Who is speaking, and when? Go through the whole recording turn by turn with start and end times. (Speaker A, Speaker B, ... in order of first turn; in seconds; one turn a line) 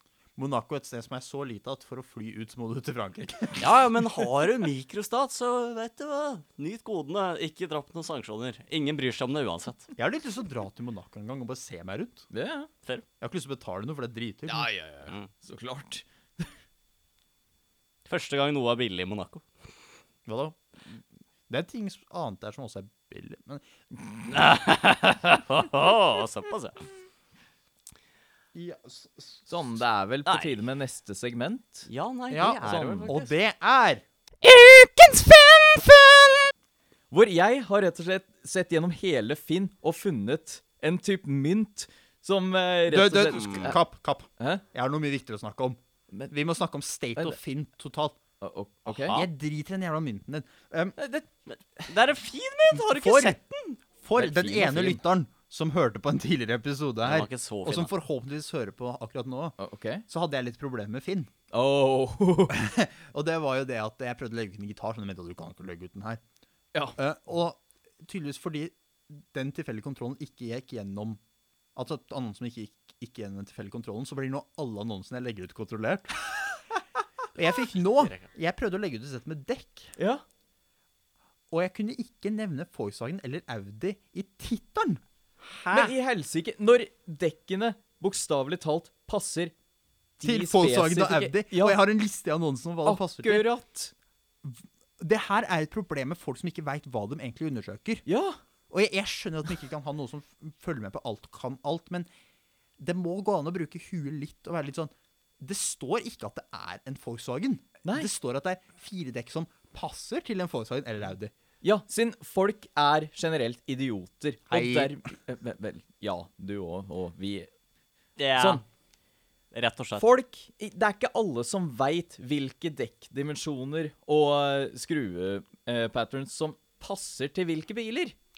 Speaker A: 0.4-3.7
Speaker B: 3.6-9.9
Speaker A: 9.9-12.3
Speaker C: 12.3-12.7
Speaker A: 13.2-14.7
Speaker C: 14.5-16.5
Speaker B: 18.1-19.5
Speaker A: 20.2-23.6
Speaker B: 24.3-26.8
Speaker A: 28.5-29.5
Speaker C: 29.5-31.9
Speaker B: 30.2-30.6
Speaker B: 31.9-33.3
Speaker A: 32.3-34.0
Speaker C: 32.6-33.1
Speaker C: 34.4-36.5
Speaker C: 37.1-43.8
Speaker A: 42.9-48.2
Speaker B: 43.3-43.7
Speaker C: 44.4-44.6
Speaker C: 48.4-49.2
Speaker B: 48.9-49.3
Speaker A: 49.1-51.0
Speaker C: 51.0-51.2
Speaker B: 51.5-53.8
Speaker A: 52.7-53.4
Speaker A: 54.0-59.5
Speaker C: 54.1-55.0
Speaker B: 57.0-57.9
Speaker C: 59.6-60.0
Speaker A: 60.1-61.3
Speaker C: 61.5-62.6
Speaker A: 62.5-66.2
Speaker A: 67.0-71.2
Speaker A: 71.7-76.5
Speaker A: 77.3-79.9
Speaker C: 80.0-80.2
Speaker A: 81.5-85.9
Speaker C: 85.7-89.5
Speaker C: 90.2-91.8
Speaker A: 90.2-93.5
Speaker C: 92.8-93.9
Speaker A: 94.4-98.0
Speaker C: 98.0-98.4
Speaker A: 98.7-102.1
Speaker A: 102.8-111.3
Speaker C: 107.8-108.1
Speaker C: 111.6-117.5
Speaker A: 114.5-115.0
Speaker B: 118.2-118.6
Speaker C: 118.4-118.6
Speaker B: 119.5-120.0
Speaker C: 120.0-128.1